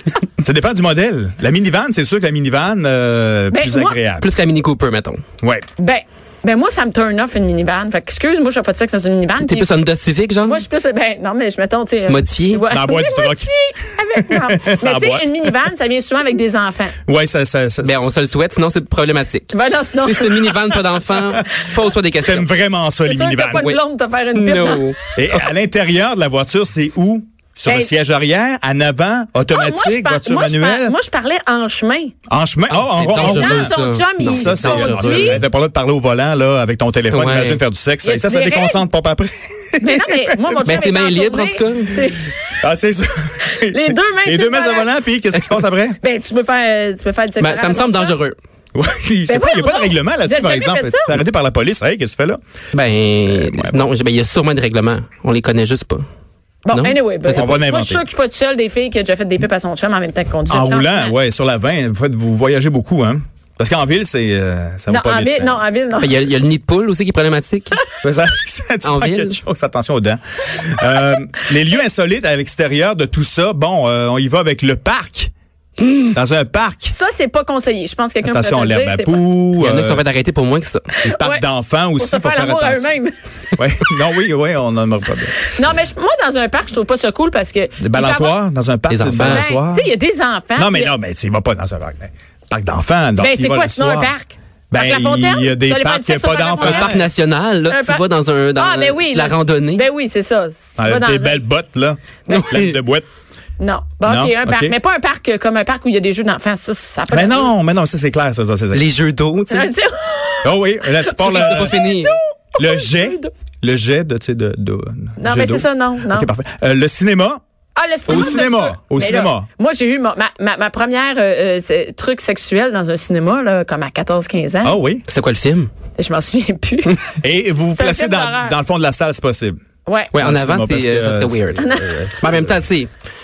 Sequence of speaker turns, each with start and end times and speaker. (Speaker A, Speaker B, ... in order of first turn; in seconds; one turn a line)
Speaker A: 0.4-4.3
Speaker B: 3.5-4.0
Speaker C: 4.2-5.2
Speaker A: 5.4-5.7
Speaker B: 5.8-9.7
Speaker C: 9.4-10.6
Speaker B: 10.4-16.9
Speaker C: 12.1-12.6
Speaker A: 12.7-13.5
Speaker A: 14.1-15.5
Speaker A: 17.1-18.1
Speaker C: 17.8-19.5
Speaker B: 19.5-20.7
Speaker C: 20.0-22.4
Speaker A: 22.2-23.6
Speaker B: 23.0-24.9
Speaker C: 23.5-23.8
Speaker C: 24.3-25.0
Speaker A: 25.1-30.9
Speaker B: 27.6-27.9
Speaker B: 29.5-32.1
Speaker A: 32.3-40.6
Speaker C: 32.7-35.4
Speaker B: 33.1-35.4
Speaker C: 37.1-37.6
Speaker B: 38.0-38.8
Speaker B: 39.8-42.5
Speaker C: 40.6-42.0
Speaker A: 42.6-46.0
Speaker B: 43.4-44.9
Speaker B: 46.0-48.2
Speaker C: 47.4-48.4
Speaker A: 48.7-52.4
Speaker B: 49.3-51.1
Speaker C: 52.7-56.0
Speaker A: 53.3-53.9
Speaker B: 56.6-61.1
Speaker C: 56.7-57.6
Speaker A: 57.3-58.0
Speaker A: 60.5-65.6
Speaker B: 64.9-66.1
Speaker C: 66.0-67.8
Speaker A: 68.0-75.3
Speaker C: 68.8-69.4
Speaker A: 76.1-76.9
Speaker B: 76.9-79.3
Speaker A: 78.2-80.0
Speaker C: 79.6-80.9
Speaker A: 81.0-82.9
Speaker B: 81.0-81.4
Speaker B: 82.0-83.1
Speaker A: 83.5-85.5
Speaker B: 85.4-88.3
Speaker A: 87.8-89.9
Speaker C: 88.9-89.5
Speaker B: 89.2-90.9
Speaker A: 90.5-94.1
Speaker B: 93.2-97.0
Speaker A: 94.7-97.0
Speaker C: 96.6-99.8
Speaker B: 97.7-98.0
Speaker B: 98.5-101.4
Speaker A: 100.8-103.1
Speaker B: 102.3-102.5
Speaker C: 102.3-102.7
Speaker B: 103.6-107.5
Speaker A: 104.0-104.7
Speaker A: 107.1-108.8
Speaker C: 108.7-109.7
Speaker B: 109.5-113.3
Speaker A: 110.4-111.8
Speaker C: 111.2-112.1
Speaker A: 112.6-117.4
Speaker B: 115.2-116.3
Speaker B: 117.7-124.8
Speaker A: 118.1-119.5
Speaker A: 124.6-125.0
Speaker C: 125.1-125.7
Speaker B: 126.0-127.0
Speaker A: 127.2-129.6
Speaker B: 127.7-128.5
Speaker B: 129.8-130.1
Speaker C: 130.1-132.9
Speaker A: 130.1-132.5
Speaker B: 131.6-132.1